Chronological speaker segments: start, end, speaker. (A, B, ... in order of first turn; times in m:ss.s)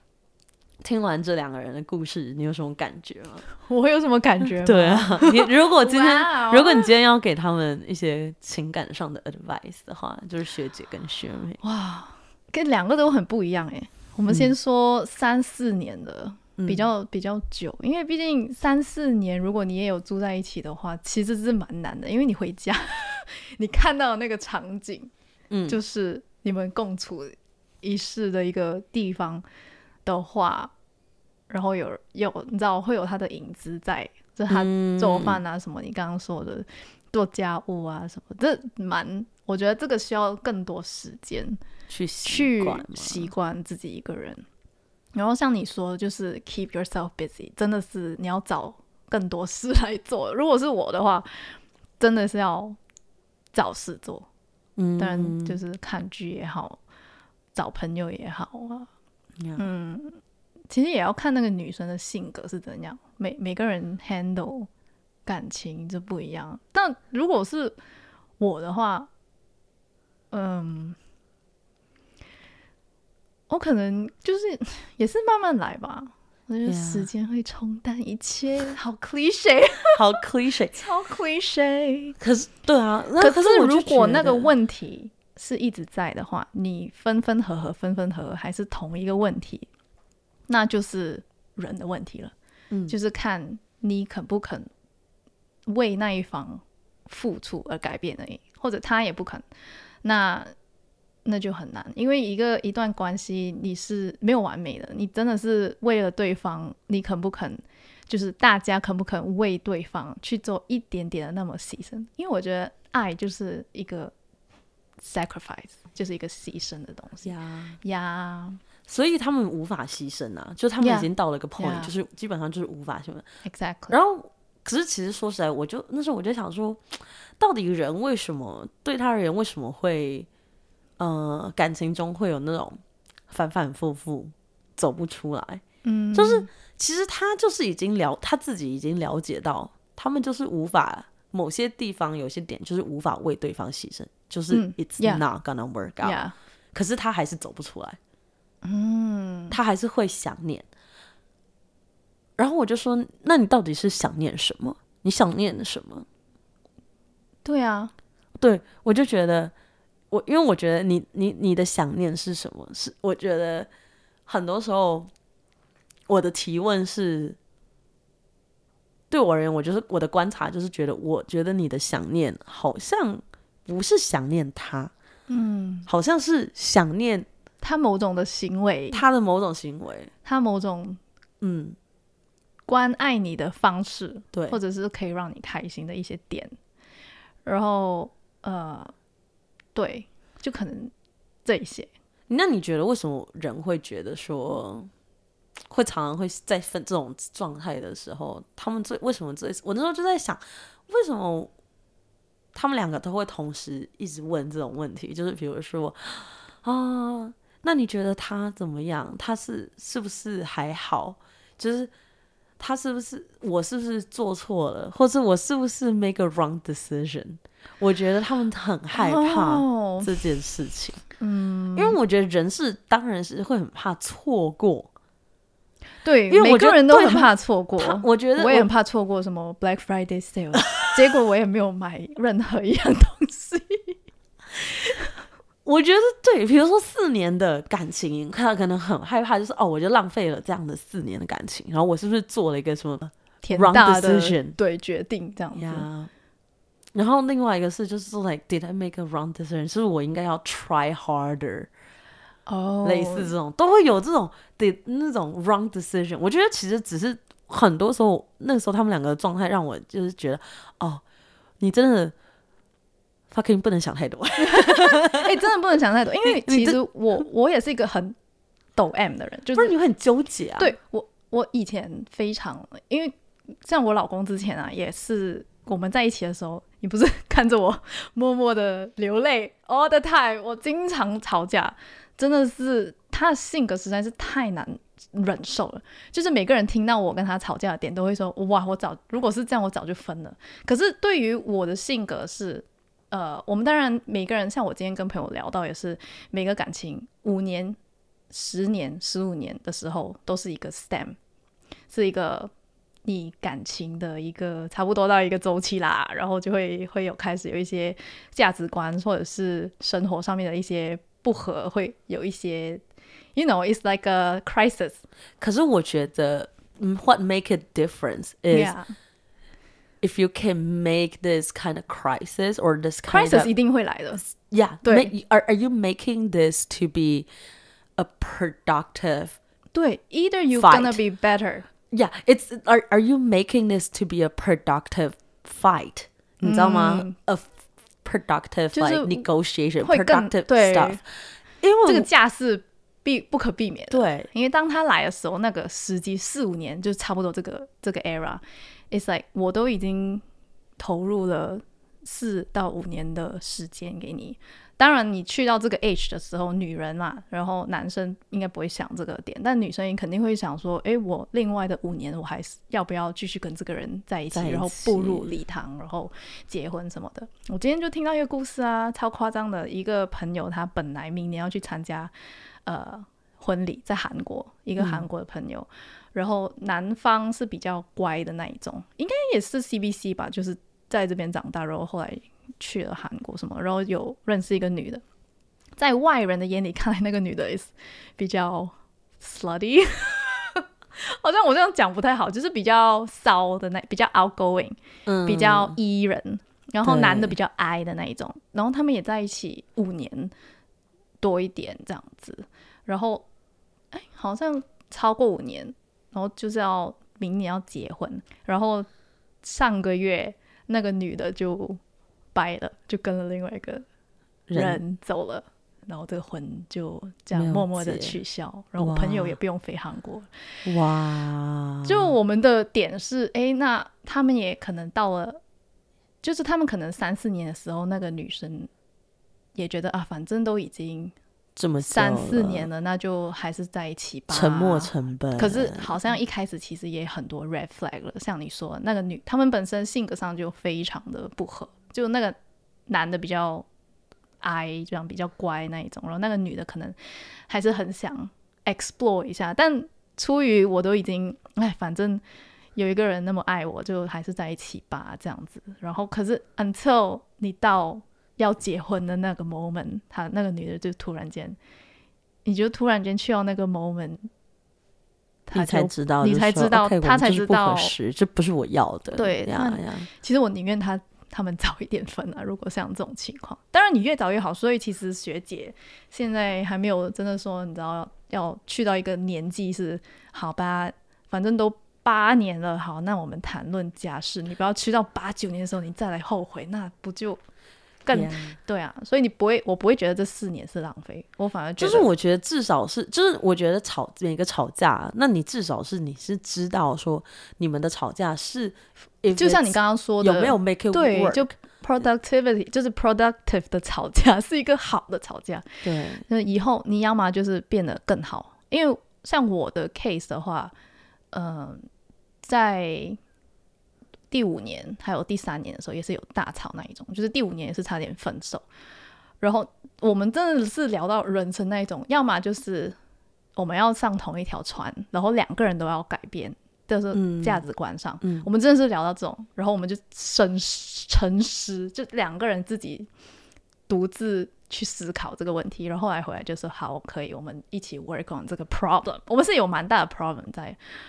0:00.8-0:03.4 A
0:03.6-0:06.9 B
0:04.5-0:11.6 A
0:11.6-0:25.1 B
0:16.6-0:16.9 A
0:25.5-0:25.8 A
0:25.7-0:29.4 B
0:30.0-0:30.7 B
0:31.5-0:41.6 B
0:34.5-0:35.4 A
0:41.9-0:43.3 A
0:42.2-0:44.4 B
0:45.2-0:52.8 B
0:53.5-0:54.3 B
0:54.8-0:55.6 A
0:55.0-0:56.8 B
0:57.6-0:58.9 B
0:59.4-0:59.6 A
0:59.6-1:00.2 B
1:00.7-1:04.7 B
1:05.3-1:07.8 B
1:08.4-1:09.1 B
1:10.3-1:11.0 B
1:13.5-1:20.0 B
1:16.7-1:17.1 A
1:19.9-1:20.8 A
1:20.7-1:22.2 B
1:22.2-1:24.5 A
1:23.2-1:29.7 B
1:30.5-1:32.3 B
1:32.9-1:34.7 B
1:35.7-1:39.4 B
1:40.0-1:40.5 B
1:41.2-1:54.1 B
1:55.0-1:58.6 B
1:57.2-1:57.8 A
1:58.9-2:03.3 A
2:00.8-2:01.9 B
2:03.5-2:04.0 B
2:03.9-2:10.3 A
2:11.0-2:15.6 A
2:15.8-2:16.5 B
2:16.1-2:26.2 A
2:24.5-2:25.2 B
2:26.0-2:26.4 B
2:26.7-2:28.0 A
2:28.6-2:29.6 B
2:29.5-2:30.7 A
2:32.4-2:36.1 A
2:37.4-2:37.9 B
2:38.4-2:39.5 A
2:40.1-2:43.7 A
2:44.3-2:45.1 A
2:46.1-2:47.4 A
2:49.1-2:54.9 A
2:55.3-2:55.9 B
2:55.9-2:57.3 A
2:57.6-2:59.0 B
2:58.9-3:00.1 A
3:00.2-3:01.0 B
3:01.4-3:01.8 A
3:02.7-3:06.6 B
3:07.4-3:08.9 B
3:09.8-3:10.9 B
3:11.4-3:11.9 B
3:12.3-3:14.9 A
3:15.7-3:21.5 A
3:22.5-3:31.9 A
3:32.6-3:41.0 A
3:38.9-3:40.1 B
3:41.2-3:42.0 B
3:41.8-3:44.9 A
3:46.0-3:54.0 B
3:46.3-3:48.7 A
3:54.6-3:55.1 B
3:55.6-4:04.6 A
4:03.4-4:05.9 B
4:05.6-4:06.1 A
4:06.9-4:11.7 A
4:12.5-4:13.3 B
4:12.8-4:21.0 A
4:21.6-4:22.1 A
4:23.3-4:25.3 A
4:24.4-4:28.2 B
4:26.2-4:26.8 A
4:28.8-4:29.8 B
4:29.6-4:30.8 A
4:30.6-4:57.8 B
4:58.3-5:01.2 B
5:01.9-5:02.5 B
5:03.0-5:12.8 B
5:13.4-5:15.0 B
5:15.4-5:18.7 A
5:18.5-5:18.9 B
5:20.0-5:23.5 A
5:23.1-5:24.2 B
5:24.2-5:27.3 A
5:24.8-5:25.1 B
5:28.0-5:29.4 A
5:29.7-5:31.7 B
5:30.5-5:31.0 A
5:31.9-5:37.5 A
5:36.4-5:37.1 B
5:38.0-5:41.0 A
5:38.7-5:39.2 B
5:39.8-5:41.0 B
5:41.6-5:42.1 A
5:41.8-5:50.2 B
5:43.9-5:44.3 A
5:50.8-6:12.1 B
6:04.3-6:05.3 A
6:12.7-6:25.0 B
6:14.8-6:15.1 A
6:25.8-6:40.3 B
6:35.1-6:35.8 A
6:36.8-6:37.4 A
6:41.2-6:43.3 B
6:43.9-6:48.9 B
6:49.4-6:51.8 B
6:52.4-6:53.8 B
6:54.5-6:54.8 A
6:54.5-7:00.3 B
6:57.3-6:58.2 A
6:58.8-6:59.4 A
7:00.6-7:02.1 A
7:01.8-7:05.4 B
7:06.2-7:08.7 B
7:09.6-7:11.1 B
7:11.6-7:12.7 A
7:11.8-7:22.4 B
7:14.3-7:15.9 A
7:22.9-7:23.7 B
7:24.4-7:27.0 B
7:27.5-7:32.2 B
7:32.8-7:41.6 B
7:42.4-7:44.3 B
7:45.5-7:47.9 B
7:45.5-7:50.1 A
7:49.2-8:07.4 B
8:08.0-8:12.1 B
8:08.1-8:08.6 A
8:11.8-8:21.5 A
8:19.4-8:25.7 B
8:25.8-8:26.2 A
8:26.2-8:30.7 B
8:31.3-8:31.9 B
8:32.4-8:33.2 B
8:34.3-8:38.6 B
8:39.4-8:43.0 B
8:43.6-8:53.1 B
8:47.2-8:47.6 A
8:53.9-9:00.8 B